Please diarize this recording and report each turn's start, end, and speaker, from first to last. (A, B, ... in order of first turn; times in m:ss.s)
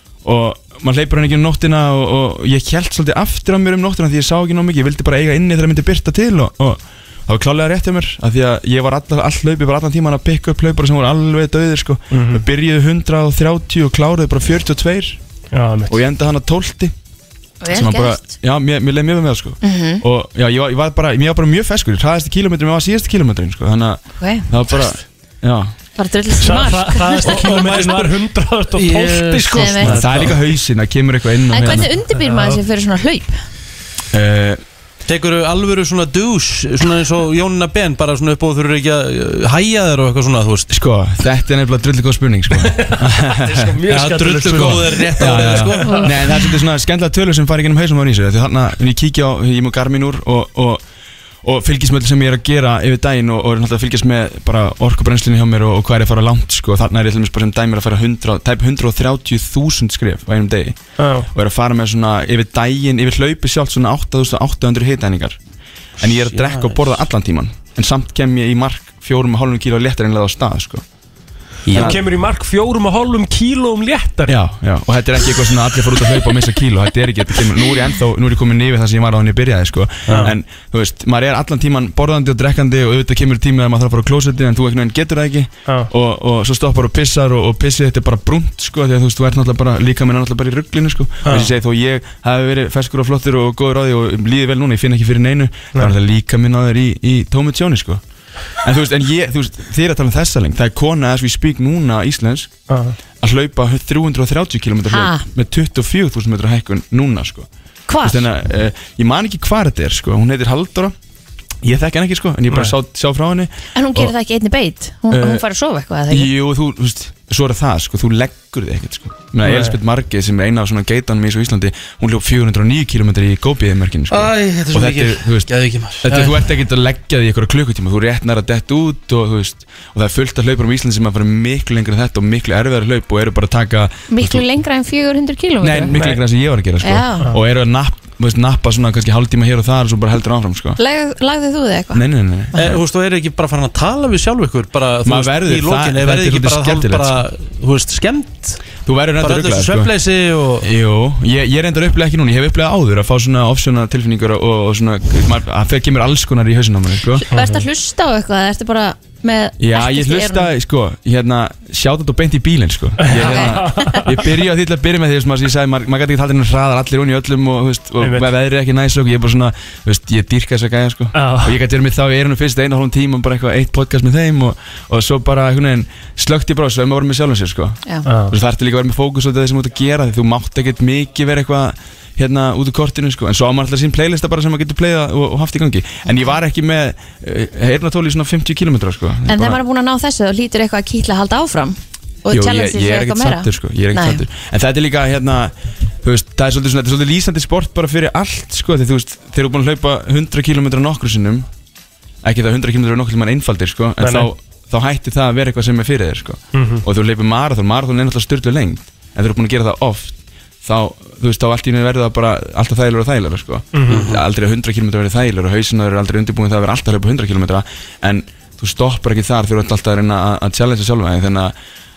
0:00.2-0:15.2 A
0:12.1-0:12.4 B
0:15.5-0:16.0 B
0:15.9-0:16.9 A
0:17.6-0:18.2 C
0:17.7-0:25.7 A
0:19.6-0:20.0 C
0:24.2-0:24.5 C
0:26.0-0:27.9 C
0:26.4-0:30.3 B
0:27.2-0:28.2 D
0:28.7-0:30.4 D
0:29.5-0:30.0 C
0:29.8-0:31.9 A
0:31.5-0:33.4 C
0:32.1-0:32.6 B
0:34.1-0:34.6 A
0:35.0-0:40.7 D
0:40.7-0:43.7 A
0:42.6-0:46.1 B
0:43.9-0:46.1 D
0:44.5-0:50.8 A
0:51.4-1:00.8 A
1:01.0-1:01.3 B
1:01.3-1:05.4 A
1:06.0-1:06.9 D
1:06.0-1:10.8 A
1:11.6-1:12.0 D
1:11.7-1:12.0 A
1:11.7-1:14.3 B
1:14.3-1:38.0 A
1:20.1-1:20.3 D
1:31.2-1:31.5 B
1:38.6-1:42.5 A
1:42.7-1:43.0 B
1:43.2-1:47.5 A
1:44.9-1:45.2 C
1:47.9-1:48.3 C
1:48.0-1:50.9 A
1:51.6-1:54.1 A
1:53.7-1:56.3 C
1:55.1-1:55.4 A
1:56.1-2:05.5 A
1:59.4-1:59.8 B
2:04.1-2:06.4 D
2:06.0-2:14.4 A
2:14.1-2:16.0 C
2:15.6-2:20.8 A
2:16.8-2:17.3 C
2:20.8-2:22.0 C
2:21.9-2:22.8 A
2:22.5-2:28.6 D
2:25.0-2:27.2 A
2:28.8-2:29.9 A
2:29.2-2:30.7 D
2:30.6-2:37.3 A
2:37.2-2:40.5 C
2:39.6-3:09.6 A
2:43.0-2:44.1 B
2:43.2-2:44.0 C
2:48.0-2:48.3 B
2:51.1-2:51.5 B
2:58.0-2:58.4 B
3:09.2-3:14.2 C
3:12.3-3:21.5 A
3:22.2-3:41.5 A
3:24.0-3:24.3 B
3:26.5-3:26.8 B
3:33.7-3:34.1 B
3:33.9-3:34.2 D